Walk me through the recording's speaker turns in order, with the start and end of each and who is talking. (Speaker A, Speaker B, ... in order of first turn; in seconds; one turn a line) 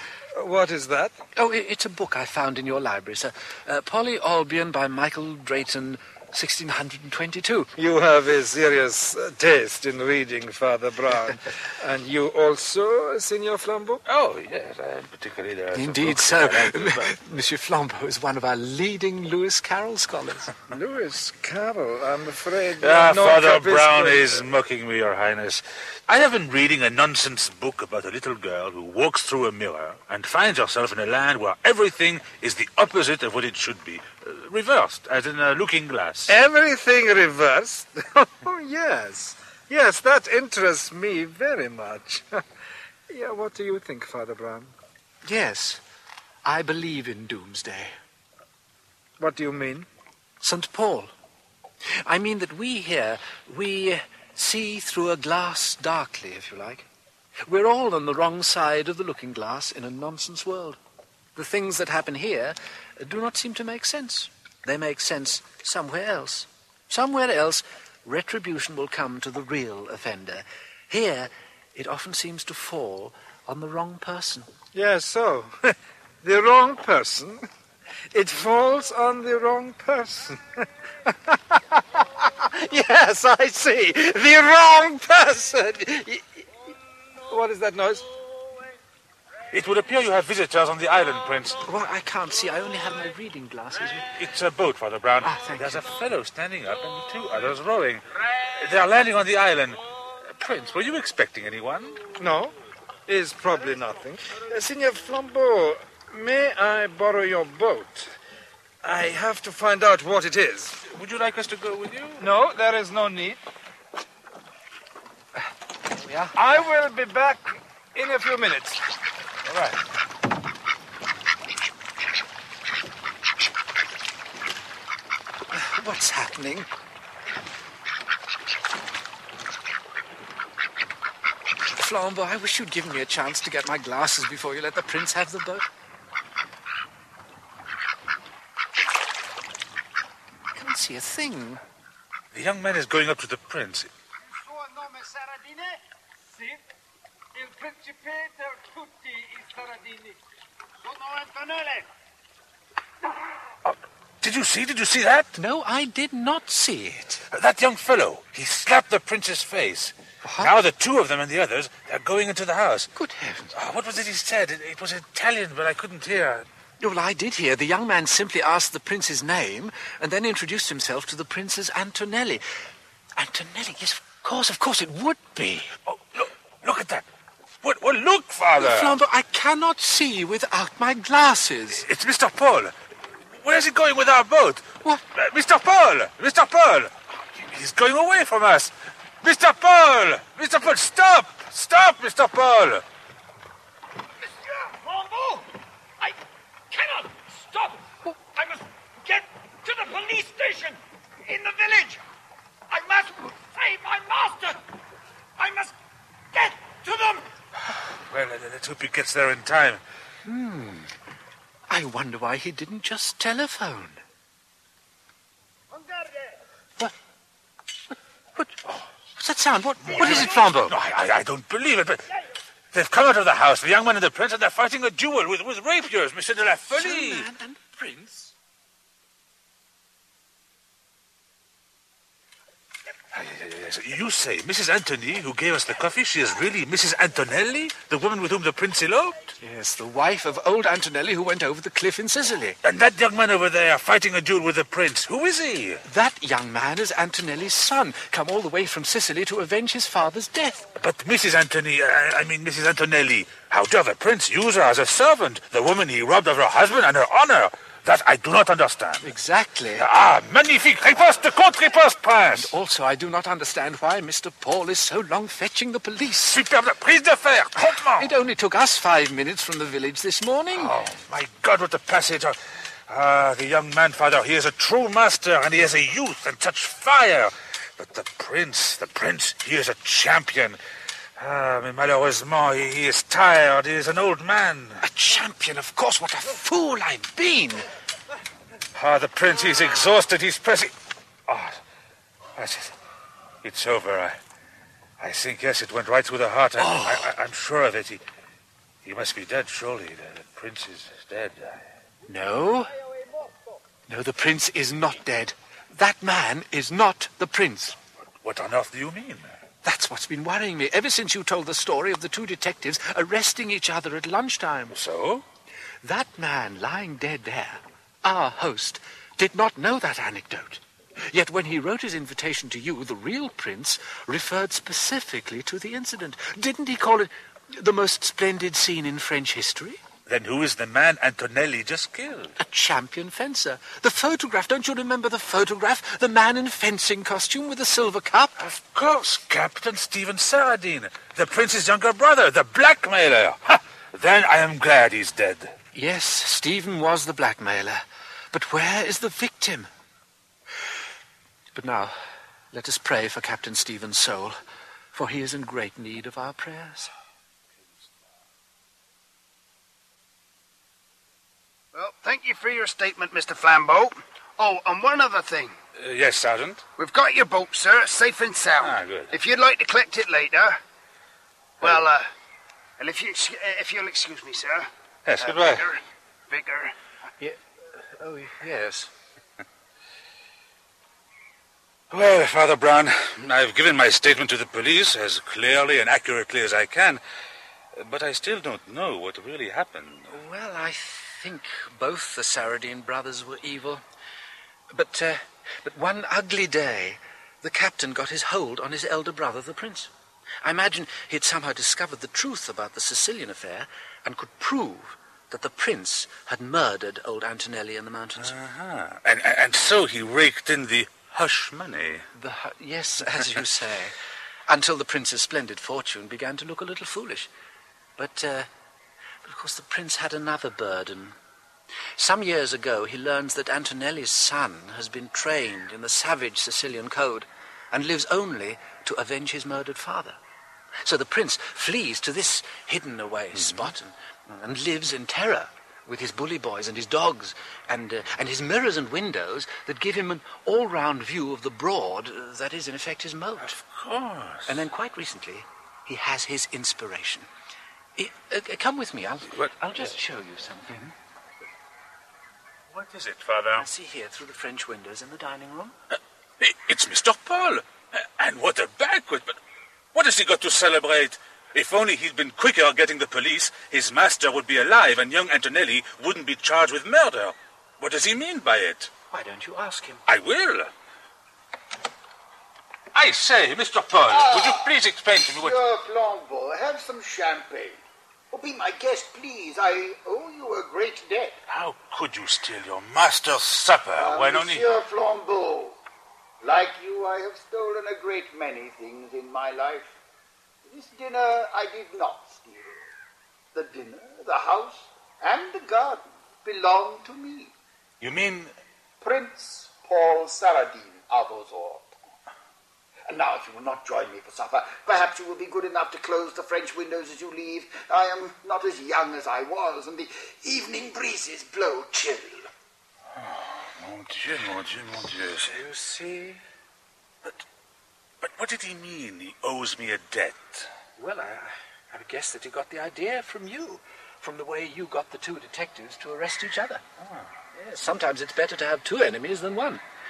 Speaker A: 0.3-1.2
Speaker B: 1.4-7.7
Speaker A: 7.8-14.0
Speaker C: 14.1-17.2
Speaker B: 15.7-20.6
Speaker A: 20.7-24.4
Speaker C: 22.8-36.3
Speaker A: 36.3-42.4
Speaker A: 43.1-44.8
Speaker B: 45.2-45.8
Speaker B: 46.5-48.0
Speaker A: 49.2-49.9
Speaker B: 50.4-51.1
Speaker B: 52.0-56.9
Speaker B: 57.5-60.8
Speaker B: 61.4-74.5
Speaker A: 74.7-77.5
Speaker A: 78.1-86.5
Speaker A: 87.3-88.1
Speaker C: 89.5-91.6
Speaker B: 91.7-94.1
Speaker C: 94.2-102.1
Speaker B: 95.2-96.0
Speaker A: 102.2-102.5
Speaker A: 103.1-108.2
Speaker A: 108.8-110.8
Speaker C: 110.8-112.3
Speaker A: 112.2-113.4
Speaker B: 116.0-116.4
Speaker A: 116.3-118.8
Speaker A: 119.5-119.8
Speaker B: 125.5-126.7
Speaker B: 131.8-135.7
Speaker B: 140.5-141.6
Speaker C: 142.3-143.9
Speaker D: 144.3-145.8
Speaker A: 147.3-150.2
Speaker D: 150.8-151.9
Speaker C: 153.7-155.3
Speaker B: 155.4-157.2
Speaker C: 157.3-162.9
Speaker B: 160.2-160.6
Speaker B: 162.9-163.6
Speaker C: 163.5-166.5
Speaker B: 166.8-172.4
Speaker B: 173.2-175.7
Speaker C: 175.9-177.1
Speaker C: 177.6-179.0
Speaker B: 178.6-181.8
Speaker C: 181.7-192.8
Speaker D: 194.3-195.5
Speaker D: 196.7-197.8
Speaker D: 198.3-202.0
Speaker D: 202.7-204.6
Speaker D: 205.4-205.7
Speaker D: 206.3-207.3
Speaker C: 208.0-209.8
Speaker B: 210.2-210.9
Speaker B: 211.7-214.0
Speaker D: 215.8-216.3
Speaker B: 218.4-218.6
Speaker B: 219.2-220.8
Speaker C: 219.8-222.1
Speaker C: 222.7-227.3
Speaker B: 226.7-228.3
Speaker C: 233.1-239.2
Speaker B: 239.4-242.6
Speaker C: 242.6-245.8
Speaker B: 245.9-250.7
Speaker C: 250.8-259.1
Speaker B: 259.0-259.9
Speaker C: 259.8-262.5
Speaker B: 262.3-266.4
Speaker C: 266.3-268.1
Speaker B: 267.8-270.8
Speaker C: 270.5-280.6
Speaker C: 281.2-284.8
Speaker B: 284.8-287.7
Speaker C: 288.7-290.8
Speaker C: 291.3-291.6
Speaker C: 292.4-292.8
Speaker C: 293.4-294.2
Speaker C: 295.0-298.0
Speaker B: 296.6-297.1
Speaker C: 298.8-301.7
Speaker B: 302.1-302.7
Speaker B: 303.9-307.8
Speaker C: 308.2-309.4
Speaker B: 309.6-314.8
Speaker C: 314.7-315.2
Speaker B: 315.8-329.8
Speaker C: 330.1-332.4
Speaker B: 332.4-338.4
Speaker C: 338.4-345.6
Speaker B: 345.7-349.7
Speaker B: 351.5-352.0
Speaker B: 352.5-354.4
Speaker B: 354.9-356.9
Speaker D: 361.7-365.6
Speaker C: 365.8-366.6
Speaker D: 366.8-370.6
Speaker C: 368.6-369.1
Speaker D: 371.6-372.1
Speaker D: 372.8-374.7
Speaker C: 375.1-375.7
Speaker D: 375.2-376.7
Speaker B: 377.2-378.9
Speaker C: 381.9-387.0
Speaker C: 387.8-390.1
Speaker B: 390.1-393.8
Speaker B: 394.7-399.9
Speaker B: 400.4-408.4
Speaker C: 408.2-412.1
Speaker B: 412.1-414.0
Speaker B: 414.5-417.3
Speaker B: 418.0-418.5
Speaker B: 419.2-421.2
Speaker B: 422.0-430.2
Speaker B: 430.8-443.6
Speaker C: 433.4-433.7
Speaker C: 443.4-444.6
Speaker B: 444.5-447.3
Speaker B: 448.0-450.9
Speaker C: 452.7-453.7
Speaker B: 453.6-455.8
Speaker C: 455.9-459.4
Speaker C: 459.9-468.9
Speaker B: 469.1-470.0
Speaker C: 470.1-470.7
Speaker C: 472.9-475.6
Speaker E: 474.1-481.4
Speaker C: 481.5-484.7
Speaker E: 484.0-485.8
Speaker E: 486.4-490.0
Speaker E: 490.6-492.9
Speaker E: 493.5-497.5
Speaker C: 498.0-498.5
Speaker E: 499.0-501.9
Speaker E: 503.1-512.5
Speaker C: 513.1-515.6
Speaker B: 515.5-516.4
Speaker C: 518.2-520.7
Speaker B: 521.0-526.8
Speaker C: 527.0-527.3
Speaker B: 527.5-529.8